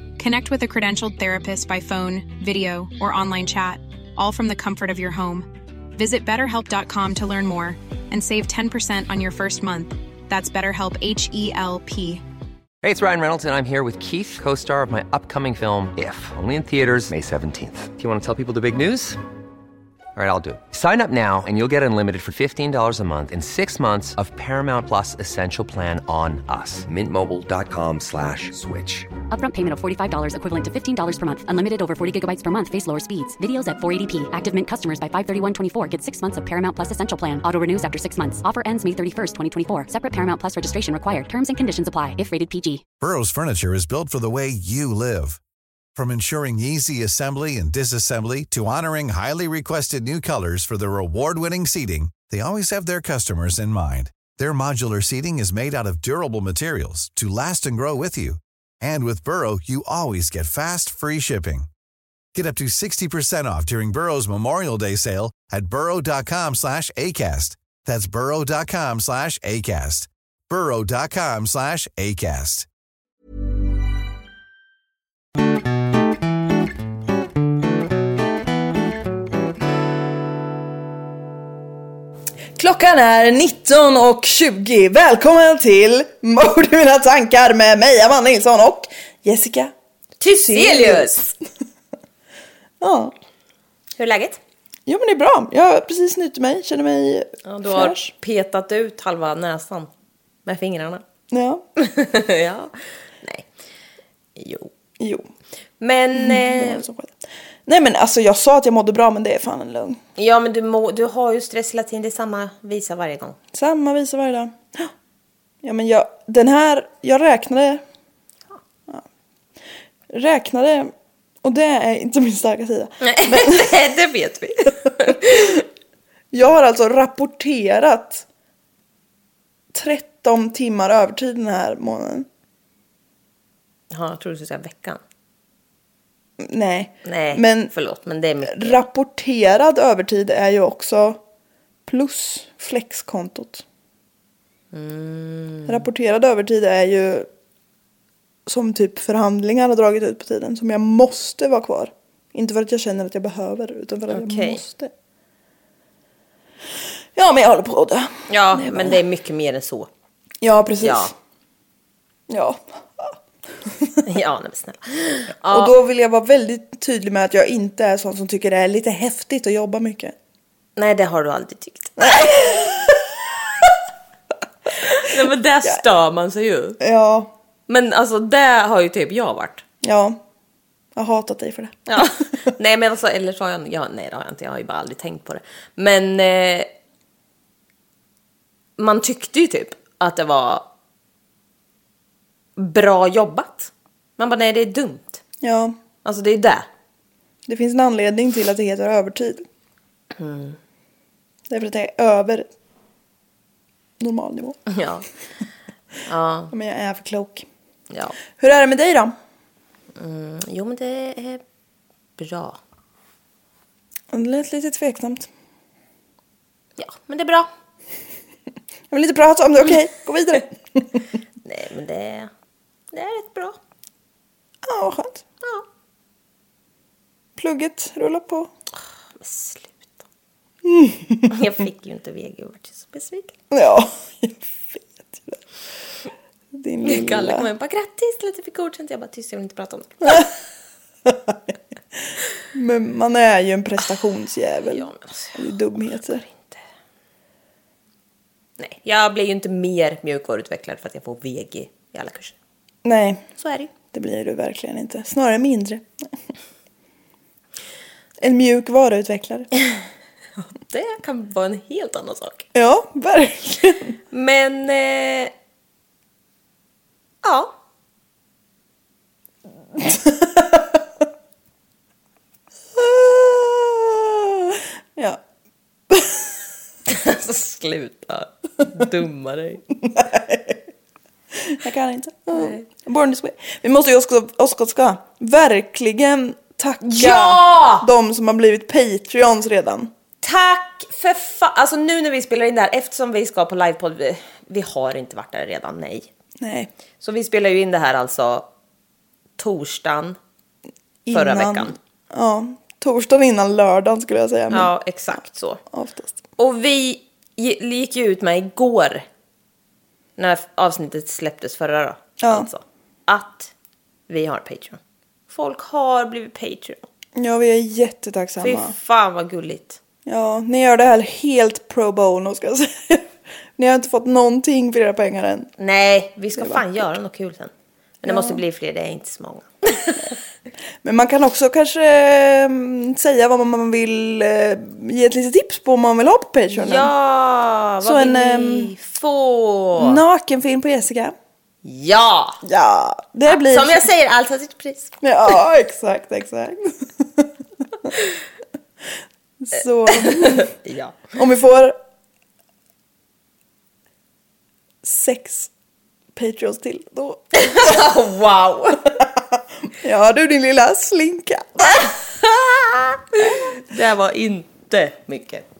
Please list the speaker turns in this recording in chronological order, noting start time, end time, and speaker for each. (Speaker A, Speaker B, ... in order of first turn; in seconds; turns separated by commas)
Speaker A: 0.2-12.2, Speaker B: 12.8-19.2, Speaker B: 20.1-29.1, Speaker C: 29.3-42.8, Speaker D: 43.0-45.4, Speaker D: 46.0-61.7, Speaker D: 62.3-72.7, Speaker E: 82.6-89.7, Speaker F: 90.2-91.2, Speaker E: 90.2-91.3, Speaker E: 92.8-93.1, Speaker F: 94.0-94.4, Speaker E: 94.8-98.1, Speaker F: 97.4-99.9, Speaker F: 100.4-101.0, Speaker E: 101.3-101.6, Speaker F: 101.8-103.5, Speaker F: 104.3-104.7, Speaker E: 105.0-105.3, Speaker F: 105.8-106.8, Speaker E: 106.1-110.0, Speaker F: 110.2-113.3, Speaker E: 113.5-114.9, Speaker E: 115.6-117.8, Speaker E: 120.1-123.8, Speaker F: 123.0-125.6, Speaker E: 125.0-125.6, Speaker E: 126.3-128.2, Speaker E: 129.7-132.3, Speaker F: 133.9-135.0, Speaker E: 136.4-137.7, Speaker F: 137.0-138.8, Speaker E: 138.4-141.2, Speaker E: 141.8-143.6, Speaker F: 144.7-145.8, Speaker E: 145.7-147.3, Speaker E: 148.4-154.9, Speaker F: 154.1-154.6, Speaker E: 157.1-159.0, Speaker F: 158.3-159.9, Speaker E: 160.4-161.1, Speaker F: 160.8-161.1, Speaker E: 162.3-164.0, Speaker F: 164.0-165.7, Speaker E: 165.5-170.1, Speaker F: 170.8-172.7, Speaker E: 172.0-173.0, Speaker F: 174.8-176.8, Speaker E: 176.8-177.3, Speaker F: 177.7-179.6, Speaker E: 179.8-180.2, Speaker E: 180.9-182.0, Speaker F: 181.9-186.7, Speaker F: 188.8-190.7, Speaker F: 192.6-195.2, Speaker E: 195.4-195.8, Speaker F: 196.0-196.7, Speaker E: 197.4-199.4, Speaker F: 200.1-200.6, Speaker E: 201.5-202.5, Speaker E: 204.0-204.6, Speaker F: 204.7-205.1, Speaker F: 206.1-206.5, Speaker E: 206.5-207.4, Speaker F: 207.9-208.2, Speaker E: 208.3-209.1, Speaker F: 209.9-211.4, Speaker F: 212.2-212.6, Speaker E: 214.1-215.3, Speaker F: 216.8-217.5, Speaker E: 218.9-220.8, Speaker F: 221.4-222.3, Speaker F: 222.9-223.6, Speaker E: 224.6-225.2, Speaker E: 227.4-228.5, Speaker F: 229.2-230.0, Speaker E: 230.6-231.3, Speaker F: 231.3-233.3, Speaker E: 233.5-235.4, Speaker E: 236.5-237.5, Speaker F: 236.8-240.3, Speaker E: 241.1-241.4, Speaker E: 242.5-246.2, Speaker F: 244.7-245.4, Speaker F: 246.2-246.6, Speaker F: 248.6-252.3, Speaker E: 252.8-253.3, Speaker F: 253.4-253.7, Speaker E: 253.9-255.9, Speaker E: 258.2-259.5, Speaker F: 260.7-262.5, Speaker E: 262.5-263.9, Speaker F: 264.1-265.3, Speaker F: 267.2-267.5, Speaker E: 269.8-270.8, Speaker E: 272.7-275.2, Speaker E: 275.9-276.3, Speaker F: 276.9-279.6, Speaker E: 279.8-280.6, Speaker E: 281.4-289.9, Speaker F: 282.3-282.6, Speaker F: 286.8-287.9, Speaker F: 290.2-296.1, Speaker E: 296.4-296.7, Speaker F: 297.0-298.5, Speaker F: 299.4-300.2, Speaker E: 301.1-304.7, Speaker F: 301.1-301.8, Speaker F: 304.5-305.6, Speaker E: 305.7-306.2, Speaker F: 306.4-309.1, Speaker F: 310.2-313.5, Speaker E: 312.2-312.5, Speaker F: 314.1-316.8, Speaker E: 317.1-318.7, Speaker F: 318.4-319.8, Speaker E: 320.0-325.5, Speaker F: 325.6-330.1, Speaker E: 326.4-326.8, Speaker E: 328.1-328.4, Speaker E: 330.8-336.9, Speaker F: 336.5-340.0, Speaker E: 337.8-338.7, Speaker E: 339.8-341.1, Speaker F: 341.6-342.4, Speaker E: 342.4-343.8, Speaker F: 343.3-345.0, Speaker E: 345.0-347.3, Speaker E: 349.4-350.5, Speaker F: 349.9-351.1, Speaker E: 351.1-351.8, Speaker E: 354.8-355.5, Speaker E: 356.1-357.8, Speaker F: 357.3-358.9, Speaker E: 359.7-361.9, Speaker F: 361.8-365.4